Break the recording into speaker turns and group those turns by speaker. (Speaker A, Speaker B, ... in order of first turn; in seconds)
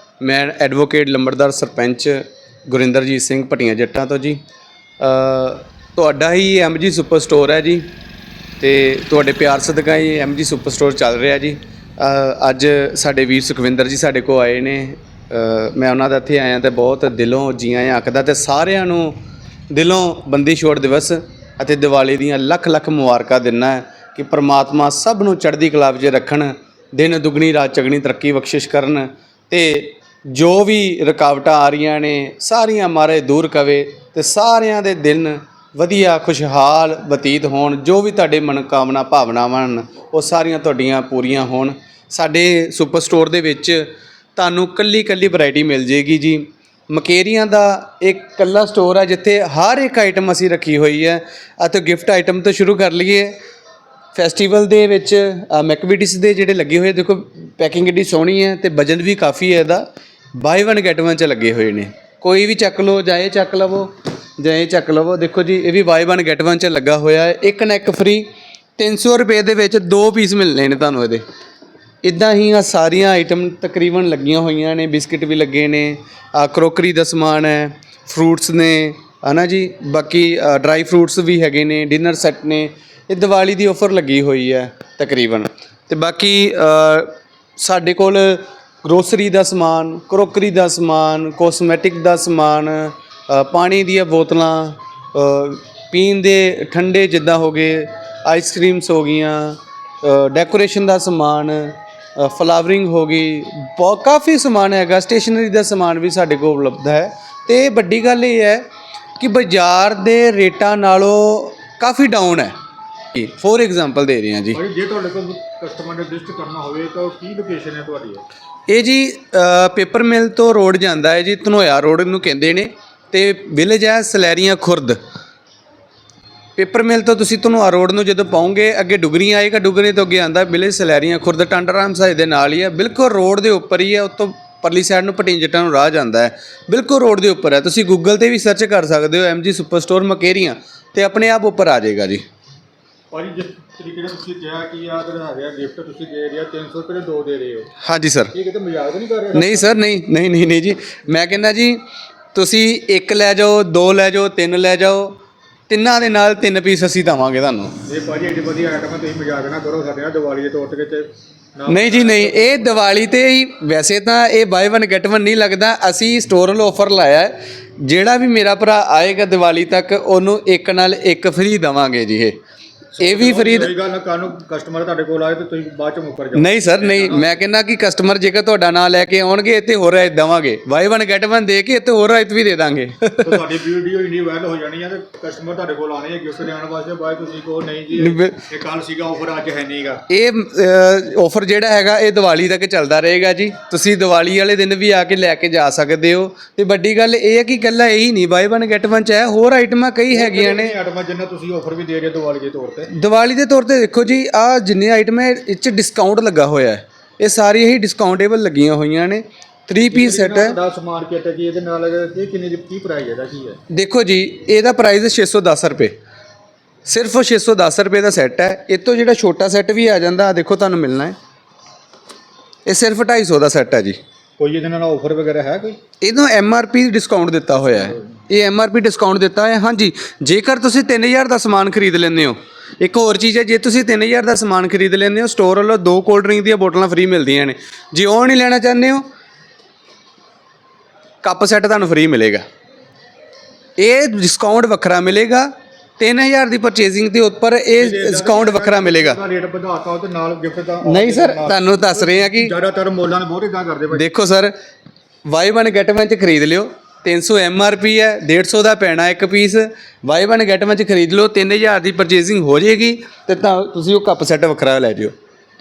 Speaker A: 0.2-4.4, 5.0-7.8, 8.6-19.2, 19.7-53.4, 54.1-59.9, 60.4-71.2, 72.0-108.7, 109.2-112.5, 113.1-114.6, 118.7-125.0, 126.6-142.2, 147.8-148.3, 149.3-151.8, 152.3-155.2, 155.7-157.8, 161.7-172.4, 173.0-173.7, 176.3-183.4, 187.9-188.4, 190.1-200.7, 202.9-210.6, 213.7-215.9, 216.9-221.2, 222.7-224.0, 226.0-239.1, 241.2-242.4, 243.8-249.2, 250.8-252.5, 253.9-254.5, 255.3-265.1
Speaker B: 114.5-118.2, 143.1-147.7, 148.3-149.7, 157.9-162.8, 173.0-177.4, 183.2-190.0, 200.1-202.9, 209.9-213.6, 224.4-225.8, 227.6-228.2, 247.8-254.1